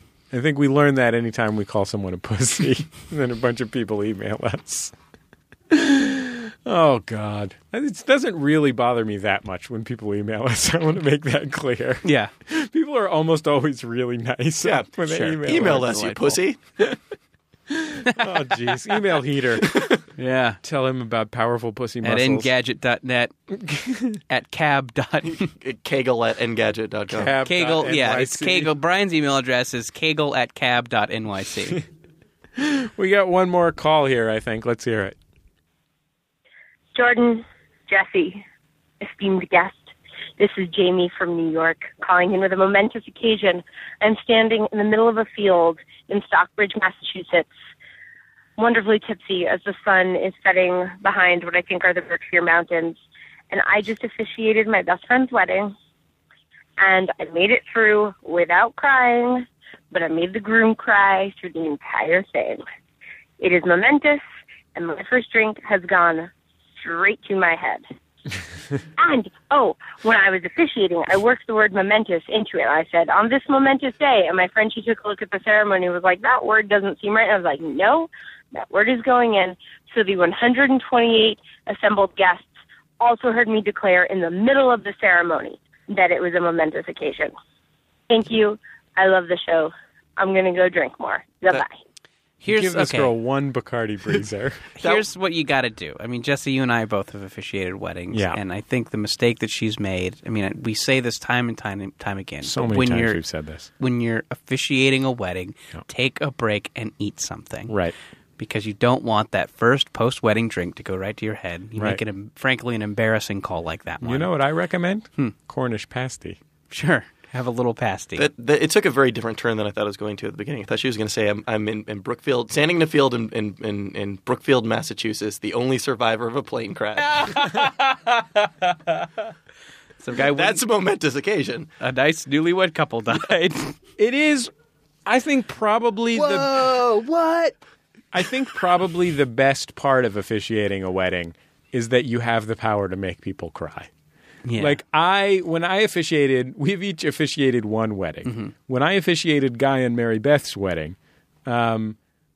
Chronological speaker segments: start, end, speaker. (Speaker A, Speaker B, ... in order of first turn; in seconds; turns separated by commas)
Speaker A: 0.3-4.9, Speaker A: 5.7-16.1, Speaker B: 12.0-12.3, Speaker C: 14.6-16.6, Speaker B: 15.1-16.4, Speaker A: 17.7-20.0, Speaker B: 20.1-20.6, Speaker A: 20.6-22.5, Speaker B: 22.0-23.3, Speaker A: 23.5-24.2, Speaker B: 24.3-25.5, Speaker C: 25.2-27.4, Speaker A: 27.1-28.7, Speaker B: 27.4-31.8, Speaker A: 32.6-35.1, Speaker D: 36.9-38.4, Speaker D: 39.0-47.5, Speaker D: 48.6-53.0, Speaker D: 53.5-55.7, Speaker D: 56.8-62.6, Speaker D: 63.4-64.2, Speaker D: 64.7-67.8, Speaker D: 69.0-82.5, Speaker D: 83.0-87.3, Speaker D: 88.1-91.7, Speaker B: 92.4-93.1, Speaker A: 92.5-94.7, Speaker B: 94.8-103.2, Speaker A: 98.1-98.4, Speaker A: 102.4-103.7, Speaker B: 103.8-107.7, Speaker A: 107.7-107.9, Speaker B: 108.4-114.3, Speaker A: 111.8-112.0, Speaker A: 114.0-116.4, Speaker B: 116.7-118.2, Speaker C: 118.2-127.5, Speaker B: 127.0-129.1, Speaker B: 130.0-130.6, Speaker C: 130.2-131.7, Speaker B: 131.8-133.7, Speaker A: 134.0-134.5, Speaker A: 135.1-136.5, Speaker B: 136.1-137.5, Speaker A: 138.1-143.9, Speaker B: 144.4-144.8, Speaker A: 144.6-152.0, Speaker B: 148.2-148.5